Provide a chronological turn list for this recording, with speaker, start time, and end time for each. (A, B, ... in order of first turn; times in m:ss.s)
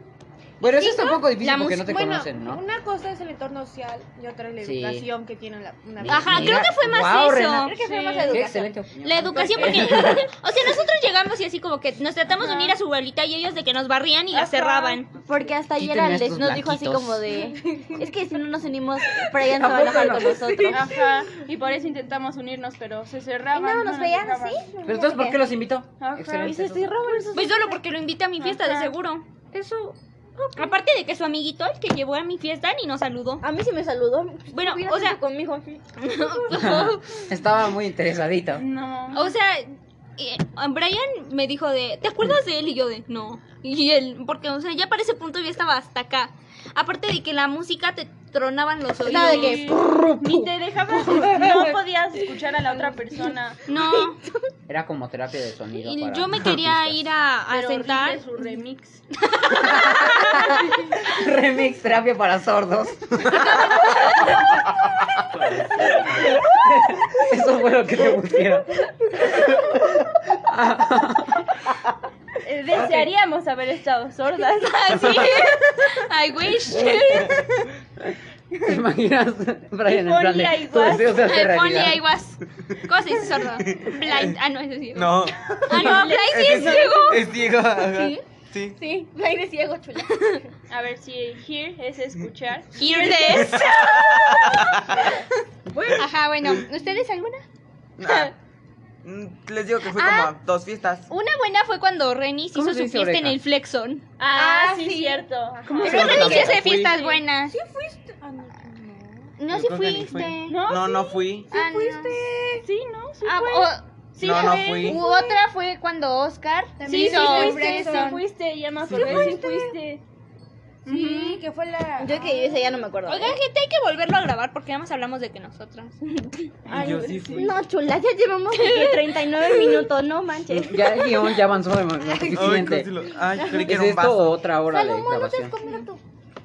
0:00.6-0:02.6 A
0:00.6-0:06.7 B
0:01.3-0:01.9 C
0:04.6-0:05.1 A
0:06.0-0:07.8 A
0:06.1-0:07.8 C
0:07.6-0:08.7 D
0:07.8-0:08.4 E
0:08.3-0:10.3 A
0:09.0-0:15.1 C
0:09.4-0:10.1 B
0:12.3-0:12.8 E
0:14.3-0:15.0 E
0:15.2-0:20.9 D
0:15.8-0:17.3 A
0:17.6-0:18.0 B
0:19.4-0:20.9 A
0:20.7-0:24.7 E
0:23.5-0:25.4 D
0:24.8-0:27.2 A
0:26.0-0:26.9 E
0:26.4-0:27.8 D
0:27.3-0:29.3 C
0:28.4-0:28.9 E
0:30.6-0:33.4 C
0:33.4-0:35.8 D
0:34.5-0:35.2 C
0:36.0-0:37.2 C
0:36.5-0:38.6 A
0:38.6-0:39.3 E
0:39.1-0:49.8 C
0:49.0-0:49.7 D
0:49.1-0:53.6 E
0:49.4-0:51.8 A
0:53.7-0:54.2 C
0:53.8-0:54.1 D
0:54.7-0:57.0 A
0:55.8-0:58.2 C
0:57.5-0:59.0 E
0:59.3-1:00.5 C
0:59.5-1:04.5 A
1:03.4-1:04.3 C
1:05.8-1:11.6 A
1:12.4-1:15.3 E
1:12.7-1:13.1 A
1:14.6-1:17.7 C
1:18.6-1:22.1 A
1:19.9-1:21.2 E
1:21.1-1:28.2 C
1:23.8-1:24.4 F
1:24.9-1:28.8 F
1:25.7-1:27.2 E
1:28.8-1:30.4 D
1:30.7-1:33.6 E
1:32.8-1:34.7 C
1:33.0-1:35.3 F
1:35.9-1:37.4 C
1:38.0-1:38.3 F
1:39.0-1:41.1 F
1:40.0-1:40.3 C
1:41.1-1:44.0 C
1:42.5-1:43.4 A
1:44.2-1:46.6 E
1:44.3-1:45.3 D
1:45.7-1:47.5 C
1:45.8-1:47.0 F
1:45.9-1:46.4 B
1:47.0-1:49.4 B
1:49.4-1:50.6 C
1:49.5-1:51.5 F
1:50.5-1:51.3 E
1:51.5-1:52.6 C
1:51.5-1:52.6 B
1:52.6-1:55.1 E
1:53.2-1:58.2 C
1:54.2-1:55.0 F
1:54.4-1:55.5 B
1:56.8-1:58.2 B
1:56.8-2:00.0 E
1:58.9-1:59.4 F
1:59.0-1:59.7 B
1:59.0-1:59.4 C
2:00.9-2:01.4 E
2:00.9-2:02.9 B
2:02.0-2:03.4 D
2:03.0-2:06.6 C
2:06.6-2:07.5 E
2:06.7-2:07.5 F
2:06.8-2:11.0 D
2:08.5-2:09.8 C
2:10.5-2:12.9 A
2:12.2-2:14.4 F
2:13.3-2:13.8 D
2:13.4-2:15.5 A
2:14.7-2:16.0 D